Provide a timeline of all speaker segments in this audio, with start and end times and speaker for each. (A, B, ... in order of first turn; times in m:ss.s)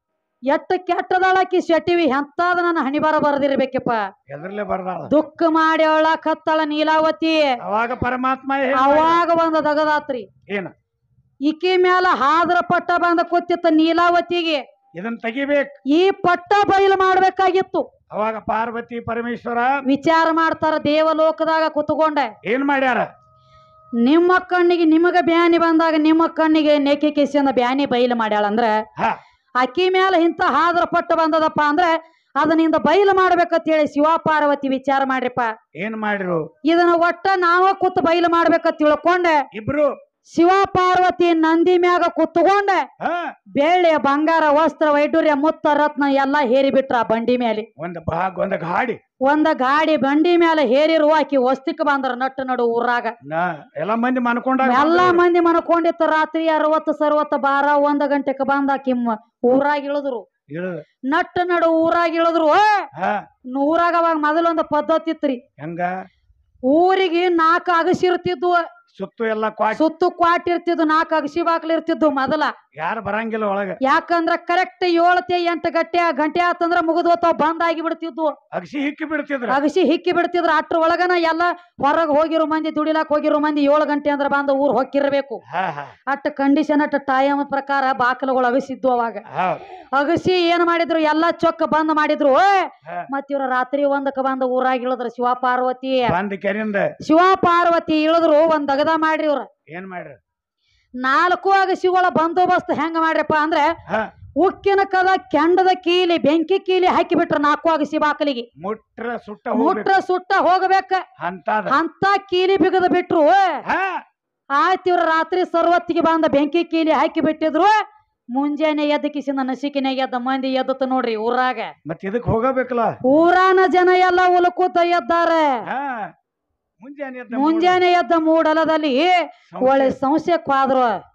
0:00.5-0:04.0 A
0:04.3-0:05.1 B
0:05.1-0:07.5 A
0:07.6-0:09.2 B
0:08.7-0:10.3 A
0:10.5-0:10.7 B
0:11.4-0:14.6 A
0:14.9-0:15.7 B
0:15.9-0:17.9 A
0:18.1-0:19.8 B
0:19.9-0:22.3 A
0:22.4-0:23.1 B
0:24.0-0:28.8 A
0:29.6-0:35.5 A
0:35.8-0:36.5 B
0:36.6-0:39.4 A
0:39.5-0:39.9 B
0:40.3-0:42.9 A
0:43.0-0:43.3 B
0:43.6-0:47.7 A
0:47.8-0:49.0 B
0:49.2-0:53.1 A
0:53.2-0:55.2 B
0:54.6-1:00.2 A
1:00.5-1:00.8 B
1:01.1-1:02.8 A
1:02.9-1:03.2 B
1:03.5-1:05.4 A
1:05.6-1:05.9 B
1:06.7-1:08.6 A
1:08.9-1:09.8 B
1:09.7-1:12.5 A
1:12.8-1:13.8 B
1:13.8-1:18.3 A
1:18.5-1:19.6 B
1:19.5-1:25.4 A
1:25.5-1:25.9 B
1:26.1-1:29.2 A
1:29.3-1:29.6 B
1:29.9-1:36.2 A
1:36.1-1:36.9 B
1:37.0-1:39.5 A
1:39.7-1:40.2 B
1:41.0-1:43.7 A
1:44.4-1:48.4 A
1:48.6-1:49.9 B
1:49.5-1:51.0 A
1:51.2-1:51.8 B
1:51.7-1:53.6 A
1:53.6-1:54.0 B
1:54.5-1:57.8 A
1:58.3-2:01.7 A
2:01.8-2:03.0 B
2:03.0-2:05.6 A
2:05.7-2:06.1 B
2:06.8-2:07.8 B
2:07.3-2:11.0 A
2:09.5-2:10.0 B